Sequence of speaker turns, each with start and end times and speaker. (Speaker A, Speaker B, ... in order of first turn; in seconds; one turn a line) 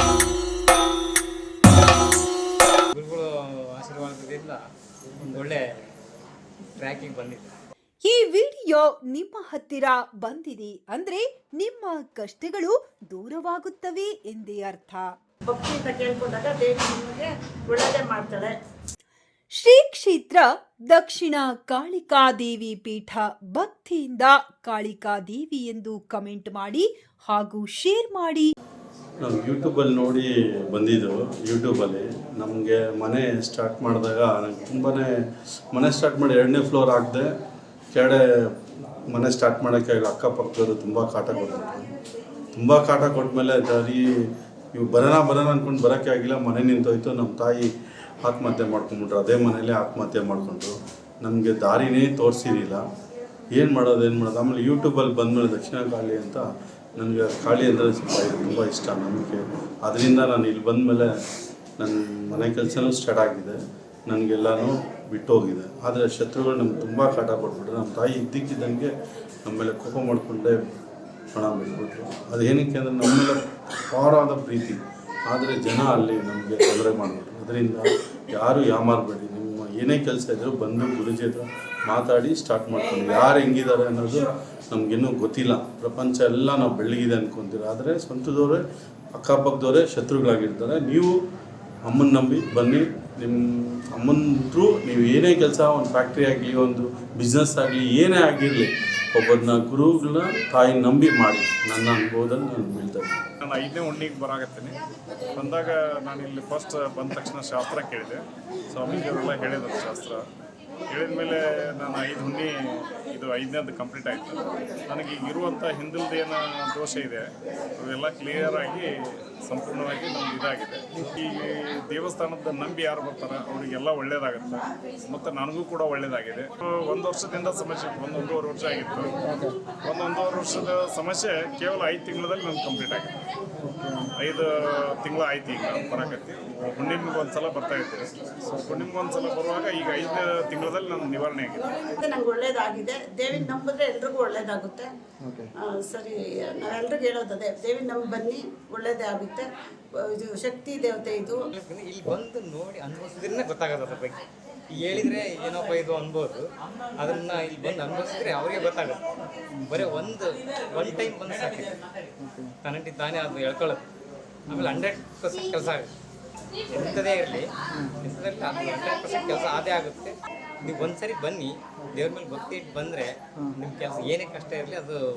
Speaker A: 2.9-4.6
Speaker A: 5.2-5.6
Speaker A: 6.7-7.5
Speaker B: 8.1-15.1
Speaker C: 15.4-18.5
Speaker B: 19.6-28.5
Speaker D: 29.2-37.3
Speaker D: 37.9-41.9
Speaker D: 42.5-47.7
Speaker D: 48.2-52.8
Speaker D: 53.5-56.4
Speaker D: 57.0-61.1
Speaker D: 61.8-68.9
Speaker D: 69.4-70.6
Speaker D: 71.3-88.6
Speaker D: 89.1-91.1
Speaker D: 91.8-103.2
Speaker E: 103.4-104.8
Speaker E: 105.3-110.2
Speaker E: 110.9-117.3
Speaker E: 117.8-118.9
Speaker E: 119.4-129.2
Speaker E: 129.8-133.1
Speaker E: 134.2-138.0
Speaker E: 138.6-141.7
Speaker C: 141.9-144.9
Speaker C: 145.6-151.4
Speaker A: 151.5-154.2
Speaker A: 154.7-156.4
Speaker A: 157.0-159.0
Speaker A: 159.6-161.8
Speaker A: 162.6-163.8
Speaker A: 164.5-165.9
Speaker A: 166.7-175.0